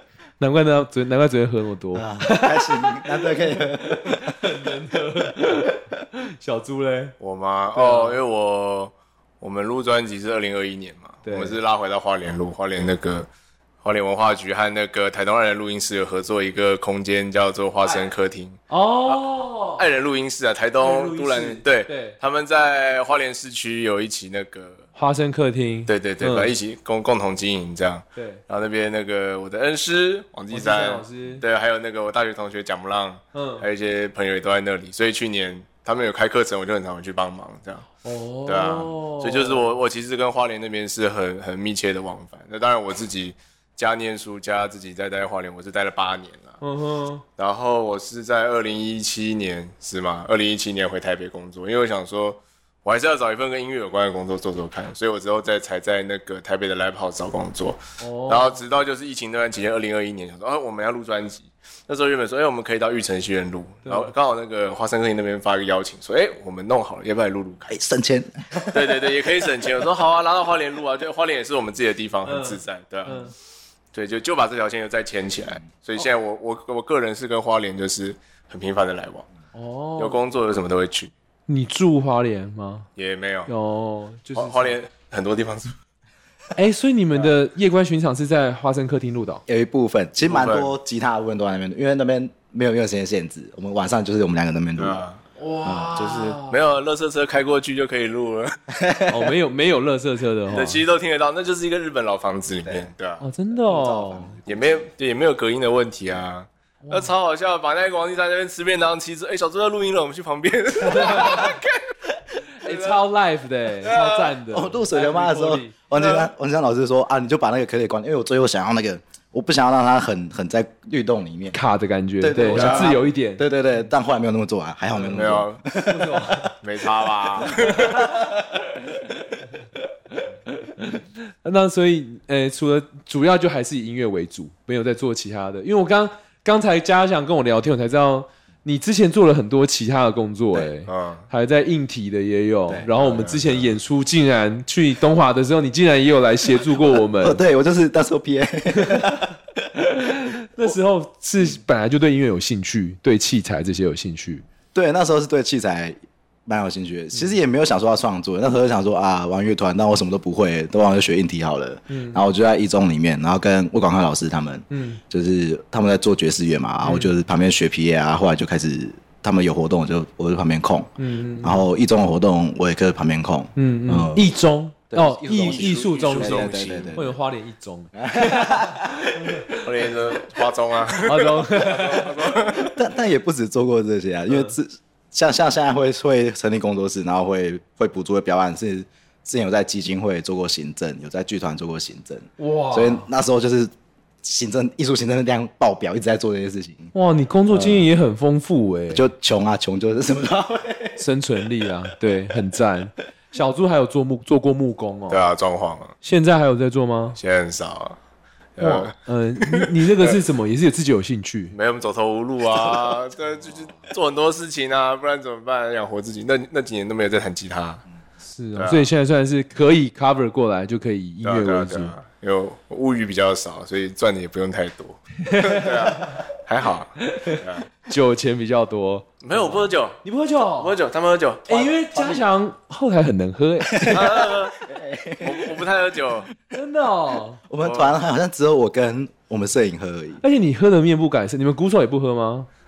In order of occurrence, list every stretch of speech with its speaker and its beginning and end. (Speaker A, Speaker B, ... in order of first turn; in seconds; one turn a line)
Speaker A: 0.4-7.1
Speaker B: 1.9-4.5
Speaker C: 7.2-13.3
Speaker A: 7.8-8.2
Speaker A: 11.2-11.6
Speaker C: 13.8-19.2
Speaker A: 18.7-19.9
Speaker C: 19.8-24.8
Speaker A: 20.8-22.2
Speaker A: 25.0-26.5
Speaker C: 25.9-37.9
Speaker A: 28.2-28.4
Speaker A: 30.5-31.4
Speaker A: 33.3-33.6
Speaker A: 38.0-39.7
Speaker C: 38.5-46.6
Speaker A: 46.6-47.2
Speaker C: 47.4-67.7
Speaker A: 58.0-58.6
Speaker A: 63.9-64.1
Speaker B: 67.7-69.2
Speaker C: 68.7-73.3
Speaker A: 72.2-73.3
Speaker C: 73.9-79.3
Speaker A: 79.5-80.2
Speaker C: 80.0-81.1
Speaker A: 81.5-82.9
Speaker C: 83.0-83.5
Speaker A: 83.5-84.8
Speaker C: 84.3-85.8
Speaker A: 86.5-89.4
Speaker B: 89.5-95.0
Speaker C: 90.2-90.7
Speaker C: 94.8-95.2
Speaker A: 95.4-96.6
Speaker B: 95.7-95.9
Speaker C: 95.9-98.6
Speaker B: 98.7-99.3
Speaker A: 99.1-100.8
Speaker C: 100.5-103.2
Speaker A: 103.2-104.4
Speaker B: 103.6-104.9
Speaker C: 104.5-111.9
Speaker A: 106.8-107.1
Speaker A: 110.8-111.5
Speaker A: 112.6-115.7
Speaker C: 112.6-113.0
Speaker C: 113.8-114.3
Speaker B: 114.5-121.6
Speaker C: 115.9-116.3
Speaker A: 121.5-123.4
Speaker B: 122.2-126.5
Speaker C: 122.5-123.0
Speaker C: 125.0-125.6
Speaker A: 125.8-126.6
Speaker C: 126.6-128.0
Speaker B: 127.4-128.7
Speaker A: 127.6-147.4
Speaker C: 140.9-141.3
Speaker C: 143.0-143.7
Speaker B: 147.0-149.4
Speaker A: 148.7-149.2
Speaker A: 149.8-154.4
Speaker B: 154.7-174.3
Speaker A: 161.9-162.3
Speaker A: 164.7-165.0
Speaker A: 166.8-167.1
Speaker A: 171.0-171.7
Speaker A: 173.6-179.8
Speaker B: 174.9-177.1
Speaker C: 175.3-177.1
Speaker B: 177.9-179.4
Speaker C: 179.6-182.7
Speaker A: 181.0-182.6
Speaker B: 182.5-193.7
Speaker A: 192.4-193.1
Speaker B: 194.2-196.9
Speaker A: 196.9-199.1
Speaker B: 197.5-197.9
Speaker B: 198.9-201.0
Speaker A: 201.0-205.2
Speaker C: 205.1-205.9
Speaker A: 206.0-207.2
Speaker C: 207.2-208.0
Speaker C: 208.6-210.2
Speaker A: 208.6-211.5
Speaker C: 211.5-217.8
Speaker B: 212.6-213.0
Speaker A: 218.2-221.9
Speaker C: 218.6-218.9
Speaker C: 221.2-227.7
Speaker A: 225.2-226.2
Speaker A: 227.0-230.8
Speaker C: 229.2-230.0
Speaker C: 230.5-231.6
Speaker A: 231.5-234.2
Speaker B: 231.5-232.3
Speaker B: 233.7-236.3
Speaker C: 233.9-234.6
Speaker C: 235.2-236.3
Speaker A: 236.5-237.4
Speaker B: 237.5-240.2
Speaker C: 237.6-238.0
Speaker A: 240.2-242.5